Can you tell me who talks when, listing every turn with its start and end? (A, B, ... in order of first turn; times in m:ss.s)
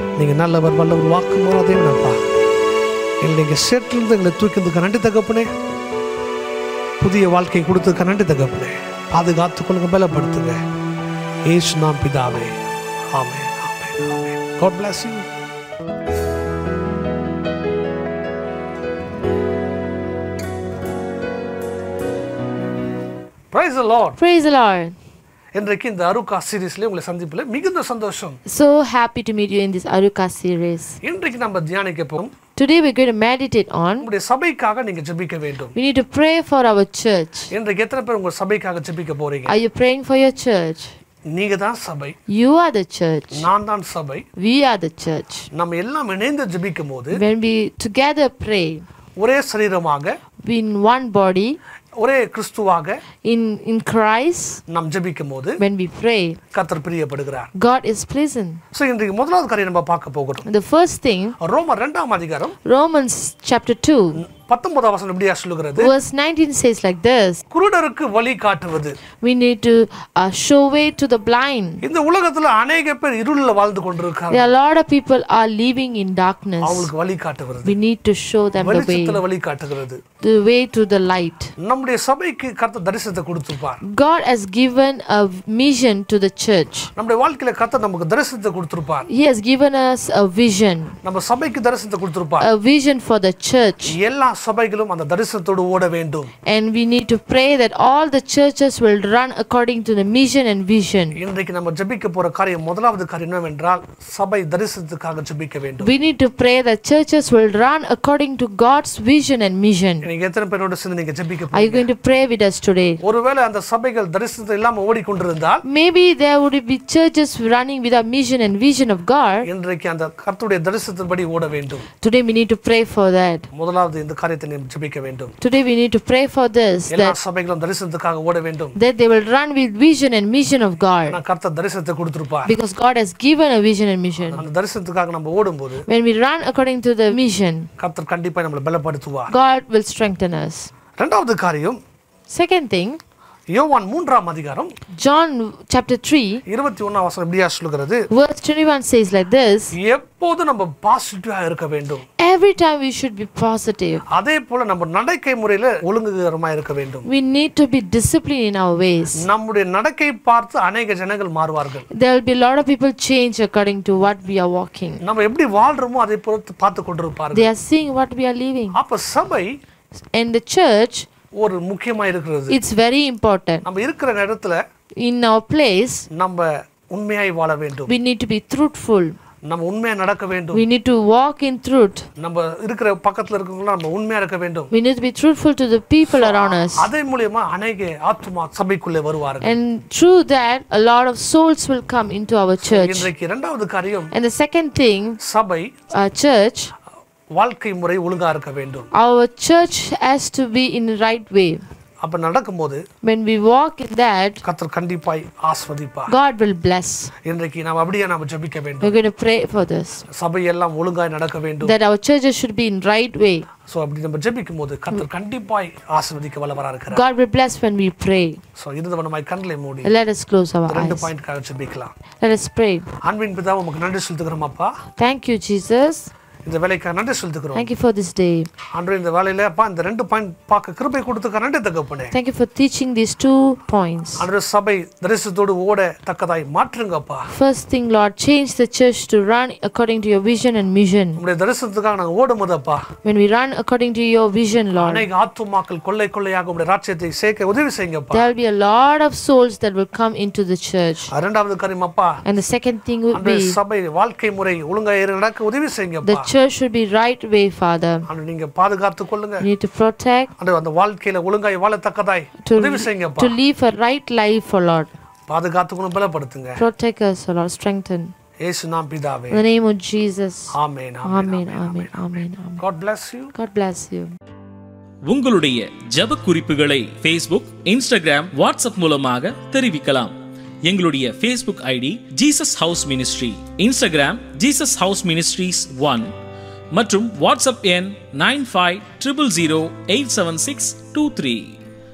0:00.2-0:02.2 A
0:03.2-0:05.5 A
0:07.0-0:10.6 A
0:11.4-0:12.5 A
0:13.1-0:15.3 A
0:23.5-0:24.2 A
0:24.2-0:24.9 B
0:25.5-0:28.4 A
0:28.4-0:31.0 B
0:31.0-0:32.3 A
0:32.6-0:34.1 B
0:34.0-0:35.8 A
0:35.7-0:37.5 B
0:37.5-0:39.6 A
0:39.5-0:40.9 B
0:41.3-0:42.2 A
0:42.3-0:43.4 B
0:43.3-0:44.2 A
0:44.4-0:45.5 B
0:45.5-0:47.2 A
0:47.1-0:48.8 B
0:49.2-0:50.2 A
0:50.4-0:51.6 B
0:52.0-0:53.0 A
0:53.2-0:54.6 B
0:54.7-0:55.6 A
0:55.6-0:56.4 B
0:56.5-0:57.5 A
0:57.5-0:58.6 B
0:58.7-1:00.4 A
1:00.4-1:01.4 B
1:01.4-1:02.6 A
1:02.6-1:04.2 B
1:04.2-1:05.9 A
1:05.8-1:07.4 B
1:07.5-1:09.0 A
1:09.2-1:11.8 B
1:11.8-1:14.5 A
1:14.3-1:16.9 B
1:16.6-1:17.8 A
1:17.6-1:19.2 B
1:18.6-1:20.0 A
1:20.2-1:21.5 B
1:21.6-1:23.8 A
1:23.8-1:26.9 B
1:27.0-1:29.1 A
1:29.1-1:30.9 B
1:31.0-1:32.5 A
1:32.4-1:34.0 B
1:33.8-1:36.3 A
1:36.4-1:41.2 B
1:41.2-1:45.9 A
1:45.8-1:50.1 B
1:50.0-1:51.9 A
1:51.5-1:53.0 B
1:53.0-1:55.6 A
1:55.6-1:59.5 B
1:59.4-2:01.8 A
2:02.0-2:03.5 B
2:03.5-2:05.3 A
2:05.4-2:07.2 B
2:06.9-2:08.8 A
2:08.8-2:11.2 B
2:11.1-2:12.5 A
2:12.4-2:14.4 B
2:14.3-2:15.8 A
2:15.9-2:17.7 B
2:17.8-2:19.3 A
2:19.3-2:20.7 B
2:21.0-2:21.8 A
2:22.3-2:23.0 B
2:23.5-2:24.7 A
2:25.0-2:26.4 B
2:26.5-2:28.0 A
2:28.1-2:29.7 B
2:29.8-2:32.0 A
2:32.2-2:34.0 B
2:34.1-2:37.1 A
2:37.1-2:39.2 B
2:39.2-2:41.8 A
2:41.9-2:45.0 B
2:45.0-2:47.5 A
2:47.3-2:48.8 B
2:48.7-2:49.5 A
2:50.1-2:51.1 B
2:51.4-2:52.6 A
2:52.5-2:53.6 B
2:53.6-2:54.6 A
2:55.0-2:56.1 B
2:56.1-2:57.9 A
2:57.9-2:59.1 B
2:59.4-3:00.6 A
3:00.5-3:02.0 B
3:02.2-3:04.7 A
3:04.7-3:06.9 B
3:06.1-3:09.6 A
3:09.4-3:13.1 B
3:12.6-3:14.1 A
3:14.1-3:15.2 B
3:15.2-3:15.7 A
3:15.9-3:16.7 B
3:17.3-3:18.9 A
3:18.9-3:21.6 B
3:22.0-3:22.8 A
3:23.0-3:24.4 B
3:24.4-3:26.1 A
3:26.1-3:27.1 B
3:27.2-3:29.0 A
3:28.8-3:30.0 B
3:30.1-3:31.8 A
3:31.6-3:33.5 B
3:33.7-3:37.0 A
3:36.9-3:38.4 B
3:38.6-3:39.9 A
3:39.8-3:41.1 B
3:40.7-3:41.9 A
3:42.2-3:42.9 B
3:43.0-3:44.7 A
3:45.0-3:46.1 B
3:46.4-3:47.7 A
3:47.5-3:48.5 B
3:48.7-3:52.1 A
3:52.1-3:54.3 B
3:54.2-3:57.3 A
3:57.3-4:01.2 B
4:01.2-4:02.8 A
4:03.0-4:05.1 B
4:04.8-4:08.3 A
4:08.1-4:11.1 B
4:11.1-4:12.2 A
4:12.2-4:13.6 B
4:13.1-4:16.3 A
4:16.0-4:18.1 B
4:18.1-4:19.4 A
4:19.4-4:20.3 B
4:20.4-4:23.4 A
4:22.4-4:24.9 B
4:25.3-4:26.6 A
4:26.6-4:28.1 B
4:28.4-4:29.4 A
4:29.3-4:30.5 B
4:30.5-4:33.3 A
4:31.0-4:32.6 B
4:33.3-4:34.1 B
4:35.0-4:46.1 C
4:46.7-4:51.6 C